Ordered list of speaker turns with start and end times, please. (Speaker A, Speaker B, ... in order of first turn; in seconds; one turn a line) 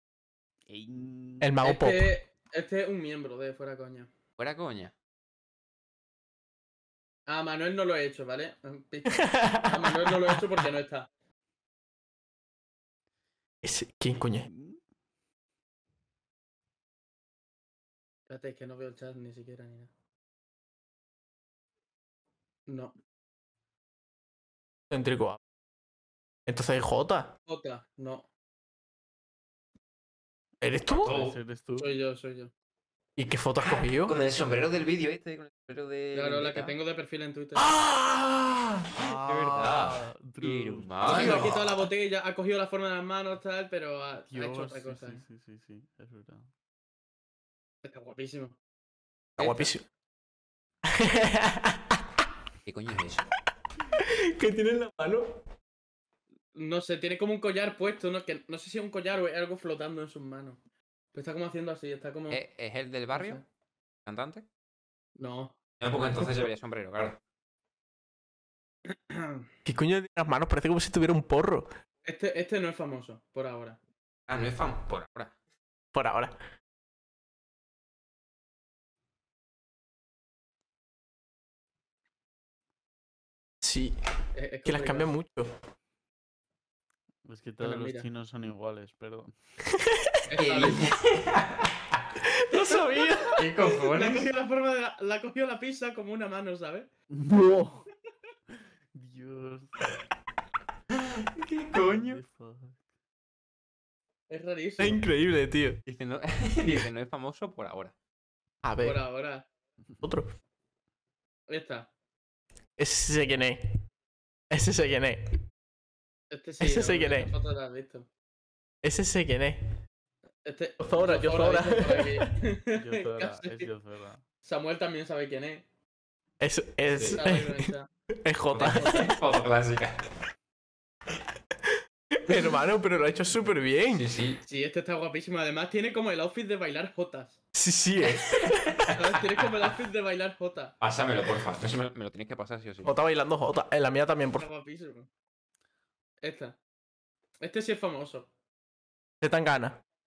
Speaker A: 0.7-1.6
Speaker B: 1.4-2.1
Speaker C: 1.6-4.1
Speaker D: 4.4-4.9
Speaker C: 7.3-11.1
Speaker B: 9.1-10.4
Speaker B: 13.6-14.5
Speaker A: 14.4-14.8
Speaker C: 18.3-19.9
Speaker C: 22.7-22.9
Speaker B: 24.9-25.4
Speaker B: 26.5-27.3
Speaker C: 27.4-28.3
Speaker B: 30.6-31.1
Speaker A: 31.0-32.0
Speaker D: 31.0-31.4
Speaker C: 31.8-32.5
Speaker B: 33.2-34.1
Speaker D: 33.6-36.7
Speaker C: 36.1-37.7
Speaker B: 37.6-38.9
Speaker A: 38.9-41.2
Speaker D: 39.2-41.8
Speaker C: 41.0-45.2
Speaker B: 41.1-41.5
Speaker A: 44.3-46.5
Speaker C: 47.8-48.6
Speaker B: 49.4-49.8
Speaker C: 49.4-49.7
Speaker B: 50.9-52.0
Speaker D: 52.6-53.3
Speaker B: 53.9-55.4
Speaker C: 56.5-60.6
Speaker C: 61.1-62.4
Speaker D: 62.3-63.4
Speaker C: 63.1-63.4
Speaker D: 64.0-64.5
Speaker C: 65.2-65.5
Speaker D: 65.8-67.2
Speaker C: 68.9-69.5
Speaker B: 69.7-71.8
Speaker C: 72.0-73.8
Speaker D: 74.3-75.3
Speaker B: 75.9-76.4
Speaker B: 83.6-84.0
Speaker C: 84.3-85.1
Speaker B: 84.7-85.5
Speaker A: 87.2-89.3
Speaker C: 87.6-88.1
Speaker C: 90.3-90.9
Speaker D: 90.4-92.0
Speaker B: 92.2-93.4
Speaker C: 92.5-92.8
Speaker C: 93.3-96.9
Speaker D: 93.4-94.3
Speaker A: 97.1-97.8
Speaker A: 98.9-100.0
Speaker D: 101.0-102.2
Speaker A: 101.7-102.8
Speaker C: 104.3-105.0
Speaker B: 104.8-105.8
Speaker D: 105.8-107.9
Speaker B: 108.6-109.0
Speaker C: 108.8-109.5
Speaker B: 110.0-110.3
Speaker C: 111.5-111.9
Speaker B: 112.8-113.7
Speaker B: 114.5-115.4
Speaker C: 116.3-118.1
Speaker B: 116.6-117.3
Speaker B: 118.8-119.8
Speaker C: 120.4-123.7
Speaker B: 120.8-122.3
Speaker A: 122.7-124.2
Speaker C: 124.4-125.6
Speaker B: 126.4-127.7
Speaker D: 126.9-127.2
Speaker C: 127.1-127.9
Speaker B: 128.2-129.1
Speaker D: 128.5-130.0
Speaker B: 132.1-134.1
Speaker D: 133.9-134.4
Speaker C: 134.4-137.4
Speaker B: 137.5-138.8
Speaker D: 138.0-138.9
Speaker C: 138.9-140.7
Speaker D: 140.8-142.9
Speaker B: 142.8-144.4
Speaker C: 144.4-145.1
Speaker C: 146.2-146.6
Speaker C: 147.4-148.3
Speaker B: 149.2-149.8